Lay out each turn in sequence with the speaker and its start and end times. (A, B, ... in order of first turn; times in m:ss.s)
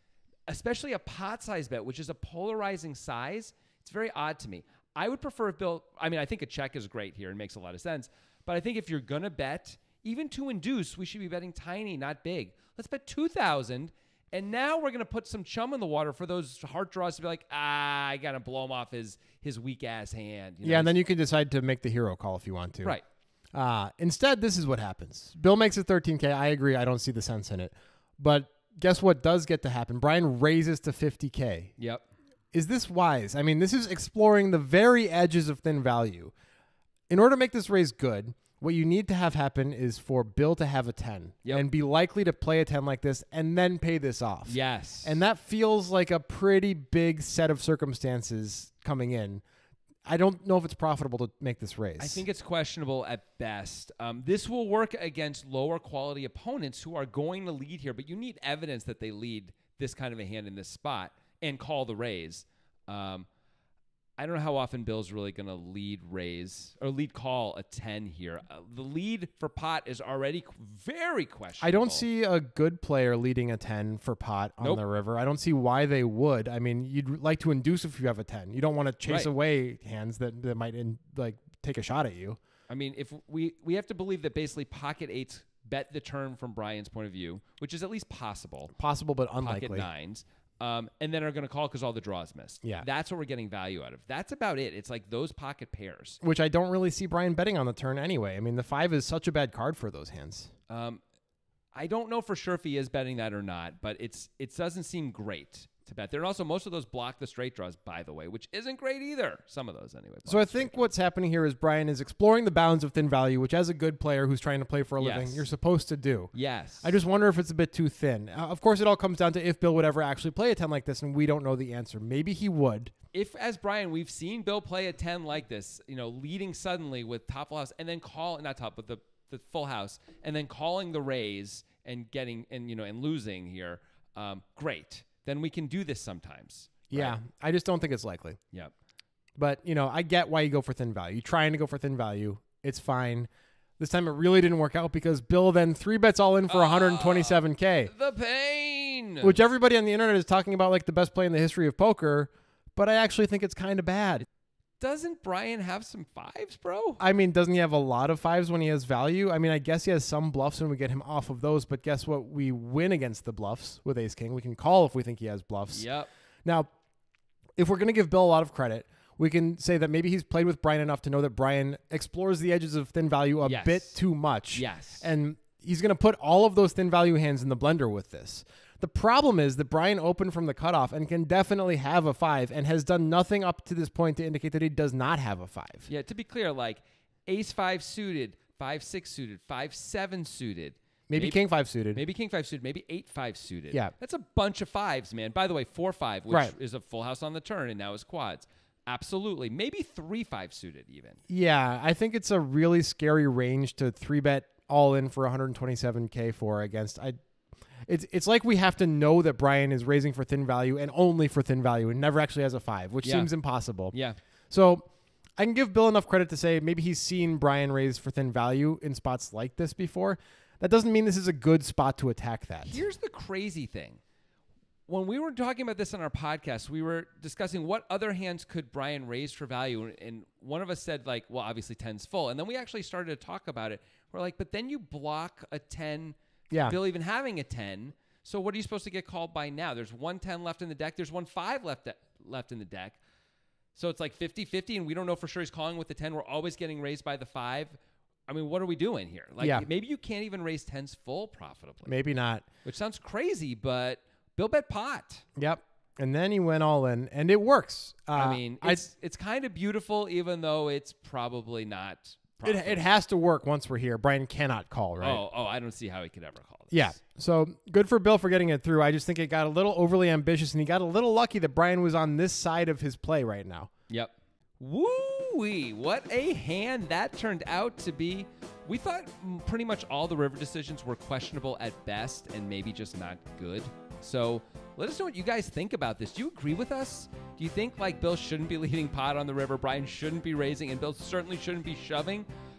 0:00.5-0:21.0 A
0:20.6-0:23.0 B
0:23.5-0:31.7 B
0:31.8-0:32.0 A
0:32.5-0:36.3 B
0:37.1-0:49.4 B
0:44.4-0:45.2 A
0:50.0-0:52.2 B
0:52.0-1:03.3 A
1:04.2-1:12.0 A
1:11.6-1:22.4 B
1:19.0-1:19.3 A
1:22.7-1:28.7 A
1:28.7-1:29.9 B
1:29.4-1:36.2 A
1:36.2-1:40.5 B
1:40.7-1:41.0 A
1:41.7-1:50.9 A
1:50.2-2:02.9 B
1:55.0-1:55.5 A
1:56.3-1:56.9 A
2:03.1-2:17.2 A
2:16.9-2:18.4 B
2:19.4-2:27.9 B
2:26.5-2:29.3 A
2:29.2-2:34.3 B
2:34.8-2:37.0 A
2:37.0-2:45.9 B
2:45.7-2:46.1 A
2:47.6-3:05.9 B
2:53.4-2:54.0 A
2:54.5-2:55.1 A
3:05.8-3:21.2 A
3:11.1-3:12.0 B
3:16.3-3:16.5 B
3:21.3-3:27.2 B
3:27.9-3:33.9 B
3:33.0-3:33.3 A
3:33.9-3:34.2 A
3:34.5-3:42.8 B
3:42.7-3:44.0 A
3:44.9-4:03.0 A
3:56.5-3:56.8 B
4:03.7-4:11.9 A
4:09.4-4:09.7 B
4:11.8-4:12.4 B
4:12.6-4:15.2 A
4:15.4-4:18.8 B
4:18.1-4:22.8 A
4:22.4-4:25.2 B
4:25.0-4:27.0 A
4:26.7-4:33.7 B
4:33.9-4:52.3 A